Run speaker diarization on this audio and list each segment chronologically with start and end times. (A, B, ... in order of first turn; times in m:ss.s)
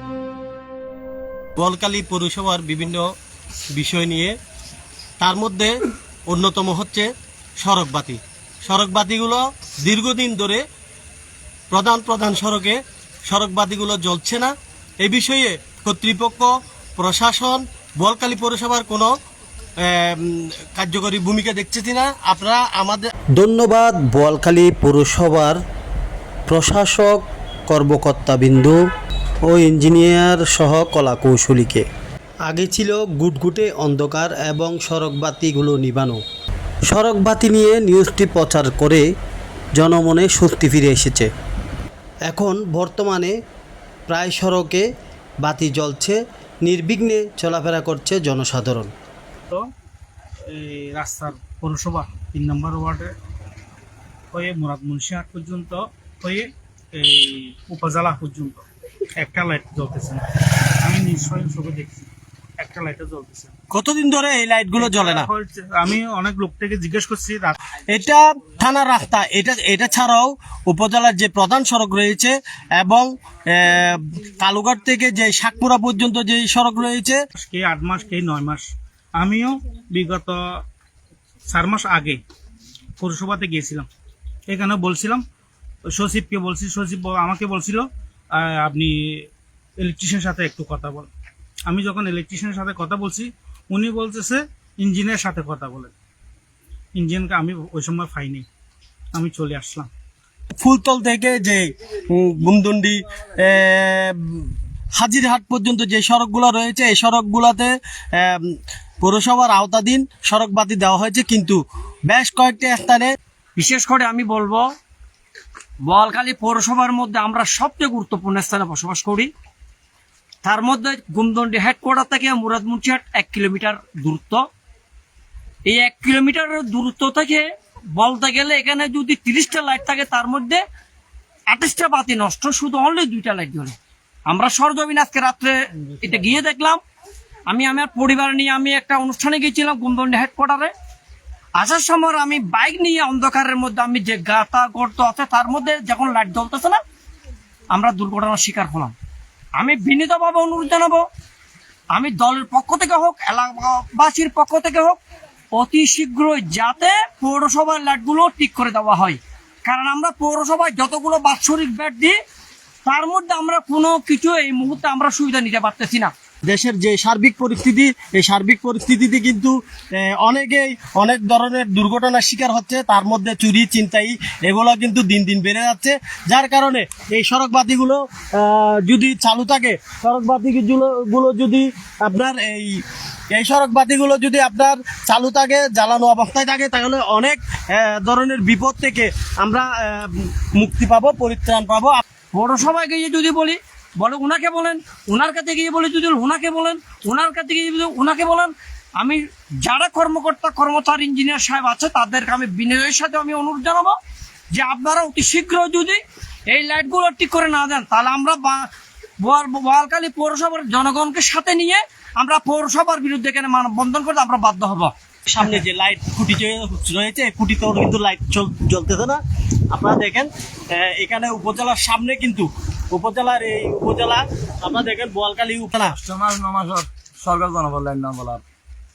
0:01.6-0:03.0 A
0:03.8-0:04.4 A
0:05.2-0:05.7 A
0:06.3-0:07.1 A
0:07.6-0:10.6 A
0:11.7-0:19.1 A
0:19.8-0:23.1 A
0:23.4-0:25.6 B
0:26.5-0:28.8 B
0:29.5-0:31.8 B
0:32.5-0:36.2 B
0:36.9-0:39.0 B
0:39.8-0:41.3 B
0:42.3-0:43.3 B
0:44.1-0:44.9 B
0:45.4-0:48.9 B
0:50.5-0:53.2 C
0:54.3-1:00.2 C
1:00.8-1:03.5 C
1:03.7-1:05.3 A
1:04.8-1:07.7 C
1:07.8-1:17.2 A
1:17.4-1:20.6 C
1:21.5-1:22.2 C
1:23.0-1:23.9 C
1:24.5-1:25.2 C
1:25.9-1:29.3 C
1:29.8-1:31.1 C
1:31.7-1:35.9 C
1:37.0-1:38.5 C
1:39.1-1:39.9 C
1:40.6-1:48.5 A
1:49.0-1:53.1 A
1:53.6-1:54.7 D
1:55.9-1:59.3 D
2:00.4-2:04.4 D
2:05.7-2:10.6 D
2:11.5-2:13.8 D
2:14.3-2:16.8 D
2:17.5-2:20.7 D
2:21.6-2:26.8 D
2:27.7-2:28.9 D
2:29.6-2:31.0 D
2:32.0-2:35.0 D
2:35.6-2:42.2 D
2:42.8-2:46.1 D
2:46.5-3:02.7 A
3:03.3-3:12.0 A
3:12.3-3:24.0 D
3:24.5-3:28.7 D
3:29.2-3:34.9 D
3:35.3-3:39.2 A
3:39.7-3:46.0 A
3:46.0-3:48.1 E